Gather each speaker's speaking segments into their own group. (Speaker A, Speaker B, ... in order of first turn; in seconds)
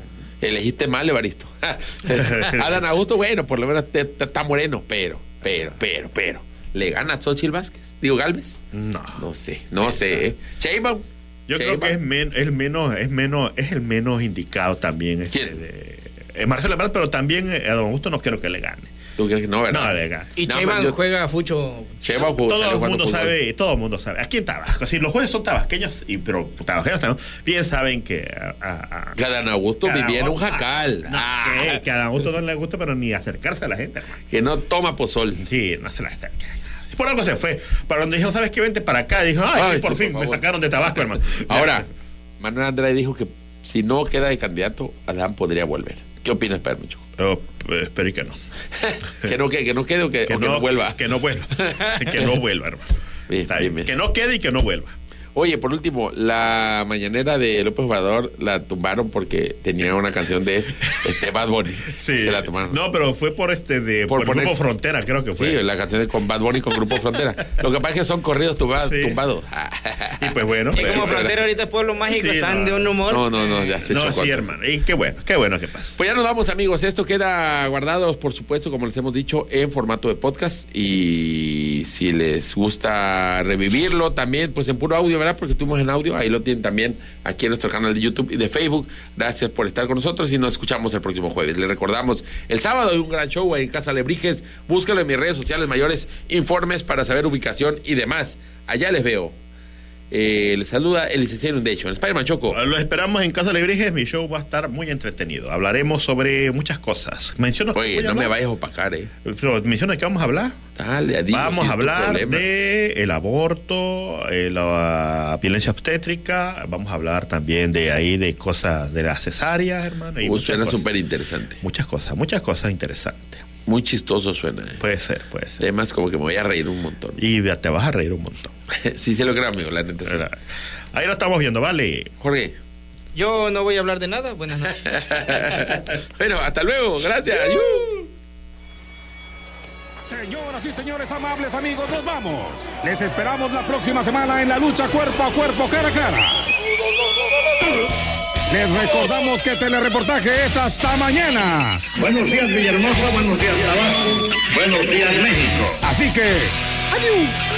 Speaker A: 0.4-8.6, 9.2-12.0, 19.2-21.0, 22.0-23.3, 29.2-31.8, 34.3-35.4, 39.5-40.4, 41.3-41.9, 42.4-47.0, 48.8-51.0, 51.6-52.3, 53.3-53.9, 55.4-62.8, 64.1-64.5, 65.4-71.4, 73.1-74.5, 76.0-99.4, 100.1-102.6, 107.7-109.1, 110.8-112.4, 120.2-121.6, 123.7-124.8, 125.6-127.2, 128.7-130.2, 132.2-132.6, 134.7-138.1
Speaker B: 2.1-2.8, 8.7-9.3, 11.5-18.9, 19.7-20.3, 22.4-29.2, 29.8-34.2, 35.4-41.8, 47.2-48.4, 50.3-55.0, 61.9-65.6, 66.9-67.2, 68.8-69.2, 70.2-71.3, 72.1-73.0, 73.5-76.0, 102.5-108.3, 109.2-110.6, 111.3-120.8, 121.6-123.4, 124.8-125.6, 127.2-128.5, 130.1-130.4, 130.9-132.1, 137.4-137.7
Speaker C: 20.4-21.9, 70.7-73.3, 133.1-134.8
Speaker D: 140.0-146.5, 148.5-152.0, 155.8-157.4
Speaker E: 152.0-155.8